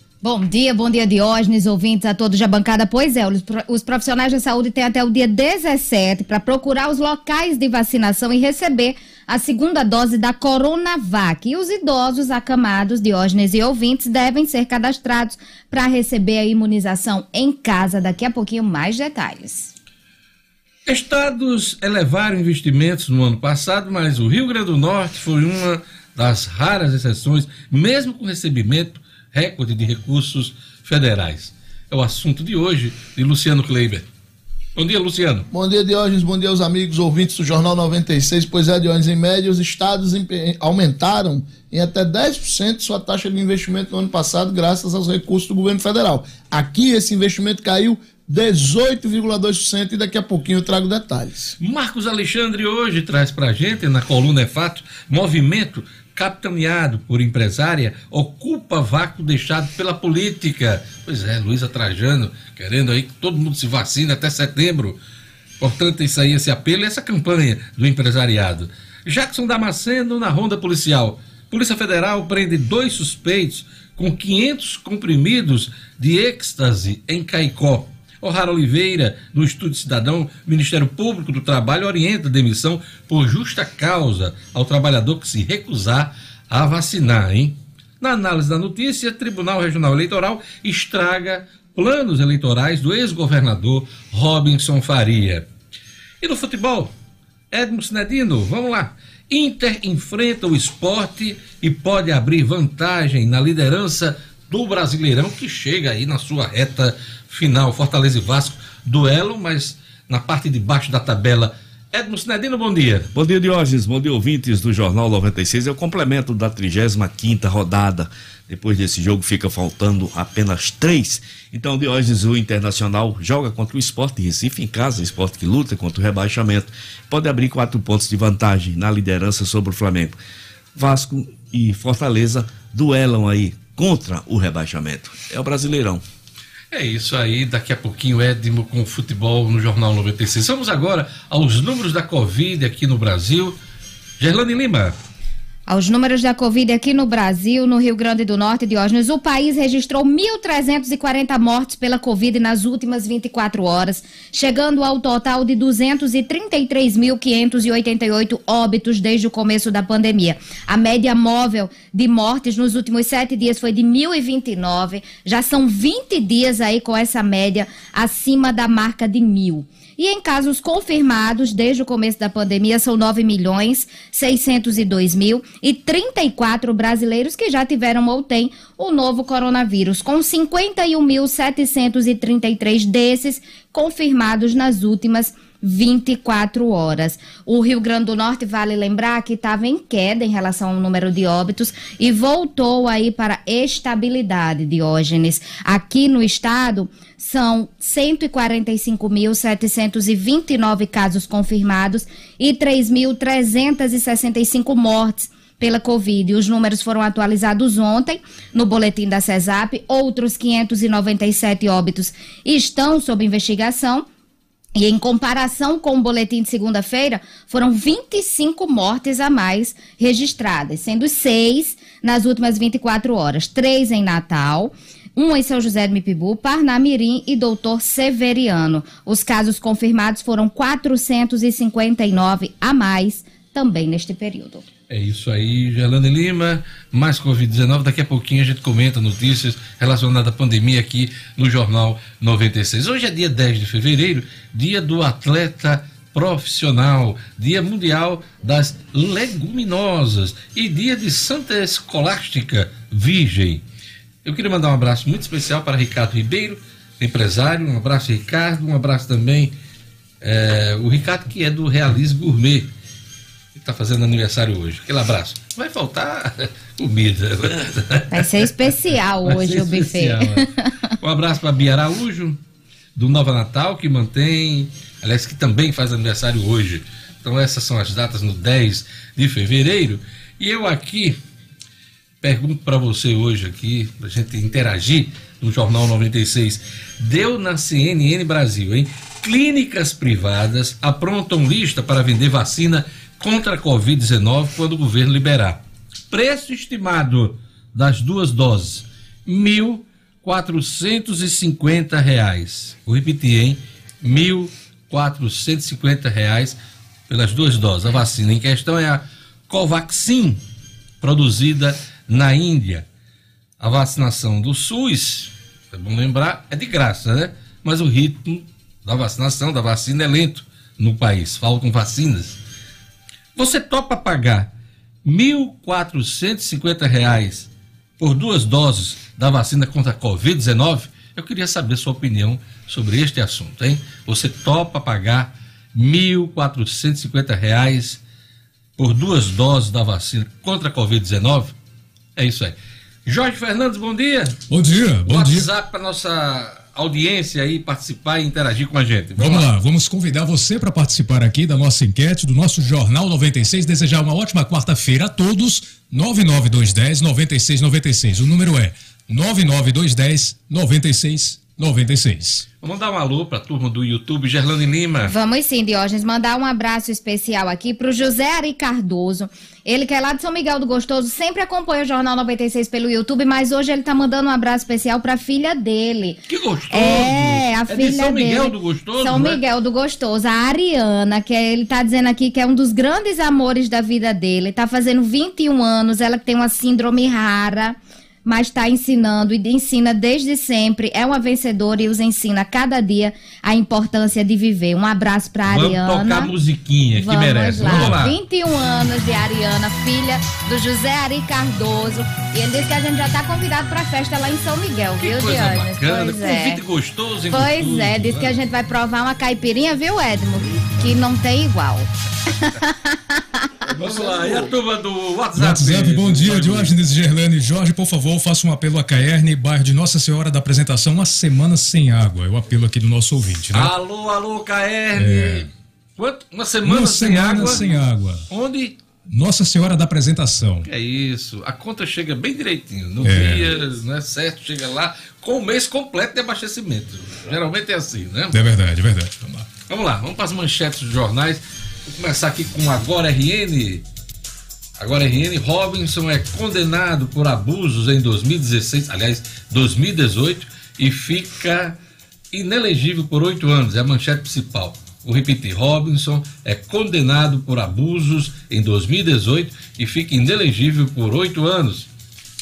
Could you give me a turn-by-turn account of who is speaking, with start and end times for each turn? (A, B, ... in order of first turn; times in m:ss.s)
0:00.2-0:19.7 A
0:20.9-0:34.0 B
0:34.8-0:35.5 B
0:35.5-0:51.5 C
0:51.6-1:05.0 B
1:05.6-1:35.5 B
1:36.2-1:36.9 B
1:37.5-1:53.1 B
1:53.1-2:10.2 D
2:10.7-2:16.0 D
2:16.7-2:23.6 B
2:24.2-2:25.0 B
2:25.7-3:34.0 A
3:34.8-3:54.6 A
3:54.9-4:13.6 B
4:14.2-4:19.5 B
4:20.2-4:22.7 B
4:23.5-4:28.5 B
4:28.1-4:30.9 A
4:29.2-4:30.5 B
4:31.0-4:32.4 B
4:33.0-4:41.2 B
4:42.2-4:55.6 B
4:56.1-5:10.4 B
5:11.0-5:12.8 B
5:13.6-5:22.4 B
5:23.4-5:24.5 B
5:25.0-5:27.5 B
5:28.0-5:38.0 B
5:38.8-5:41.5 B
5:42.2-5:44.4 B
5:44.5-5:45.5 E
5:45.0-5:49.5 B
5:49.2-6:02.5 E
6:02.6-6:05.1 B
6:05.1-6:36.3 A
6:16.3-6:19.4 B
6:35.5-6:38.2 B
6:37.0-6:46.6 A
6:45.0-6:48.4 B
6:47.3-6:53.5 A
6:53.7-6:54.4 D
6:53.7-6:56.7 B
6:55.3-7:03.7 E
7:03.5-7:07.6 B
7:04.9-7:05.5 E
7:06.6-7:08.3 E
7:08.3-7:08.8 B
7:09.1-7:10.7 E
7:10.6-7:18.4 B
7:13.0-7:13.6 E
7:18.3-7:19.4 E
7:19.6-7:23.8 B
7:24.8-7:31.8 B
7:32.3-7:41.9 B